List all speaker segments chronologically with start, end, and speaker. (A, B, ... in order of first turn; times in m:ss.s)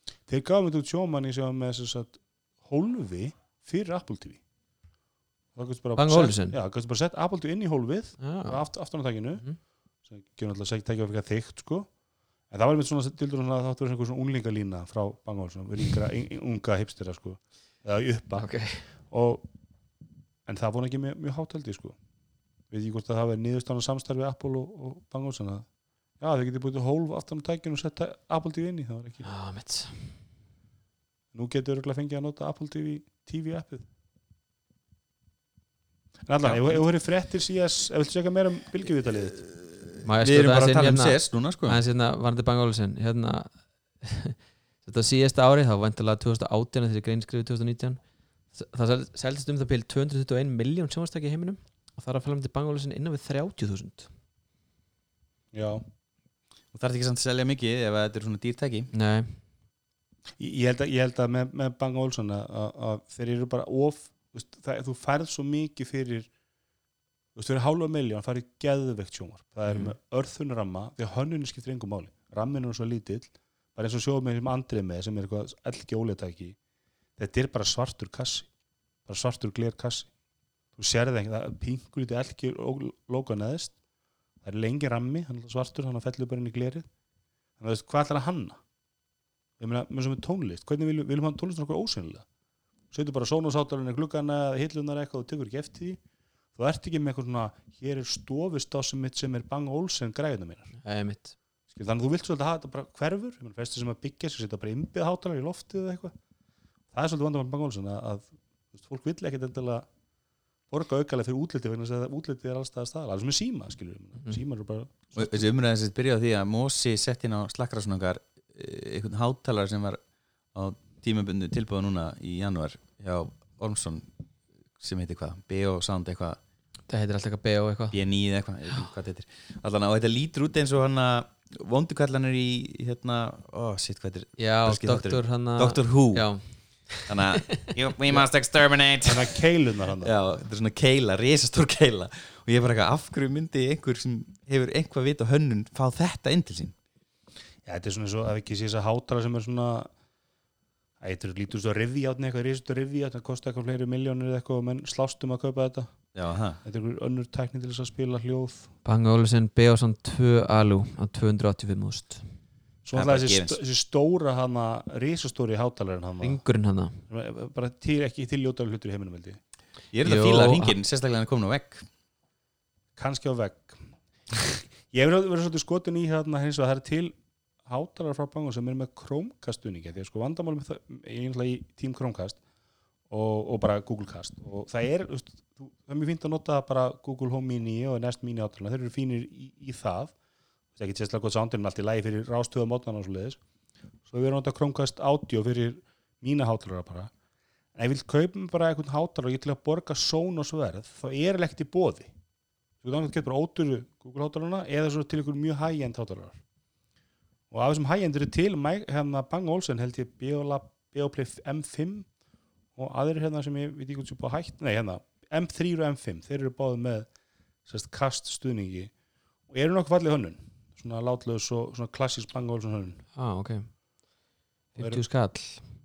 0:00.3-0:04.4 A
0:05.5-0:09.4 A
0:06.0-0:06.6 B
0:08.2-0:08.6 B
0:10.1-0:11.9 A
0:12.5-0:18.5 A
0:18.4-0:18.8 B
0:19.1-0:19.5 A
0:20.5-0:22.0 A
0:22.7-0:25.6 A
0:26.2-0:29.3 A
0:29.2-0:30.2 B
0:31.3-0:33.8 A
0:36.3-0:39.4 A
0:36.4-0:36.8 C
0:39.5-0:41.8 C
0:40.0-0:48.0 B
0:48.5-0:54.1 B
0:55.5-0:55.8 A
0:56.7-0:58.9 C
0:58.9-0:59.4 B
1:00.4-1:06.3 A
1:07.4-1:16.6 A
1:09.7-1:09.9 B
1:17.2-1:18.5 A
1:19.1-1:20.1 A
1:20.8-1:23.7 A
1:24.4-1:26.8 A
1:27.6-1:28.6 A
1:29.6-1:32.2 A
1:32.9-1:36.0 A
1:36.6-1:40.7 A
1:40.8-1:41.3 B
1:41.7-1:46.1 A
1:46.9-1:49.9 A
1:50.7-1:55.4 A
1:55.2-2:00.0 C
2:00.5-2:04.1 C
2:04.8-2:06.4 C
2:06.9-2:08.0 B
2:07.9-2:16.3 C
2:14.4-2:17.7 B
2:17.0-2:19.4 C
2:19.0-2:20.1 A
2:20.0-2:26.7 C
2:27.6-2:29.9 A
2:31.0-2:35.9 A
2:36.1-2:36.6 C
2:36.6-2:38.7 A
2:38.8-2:42.2 B
2:42.8-2:46.4 A
2:42.9-2:43.6 C
2:46.2-2:47.0 B
2:47.1-2:49.4 A
2:49.9-2:51.8 C
2:50.0-2:50.7 B
2:53.0-2:53.8 A
2:54.4-2:57.1 A
2:57.6-3:02.4 A
3:03.1-3:10.1 A
3:10.8-3:13.4 A
3:14.1-3:17.1 A
3:17.7-3:22.1 A
3:22.8-3:26.4 A
3:27.5-3:32.0 A
3:32.8-3:37.1 A
3:37.7-3:38.9 A
3:39.5-3:43.0 A
3:43.1-3:43.7 B
3:44.8-3:45.6 B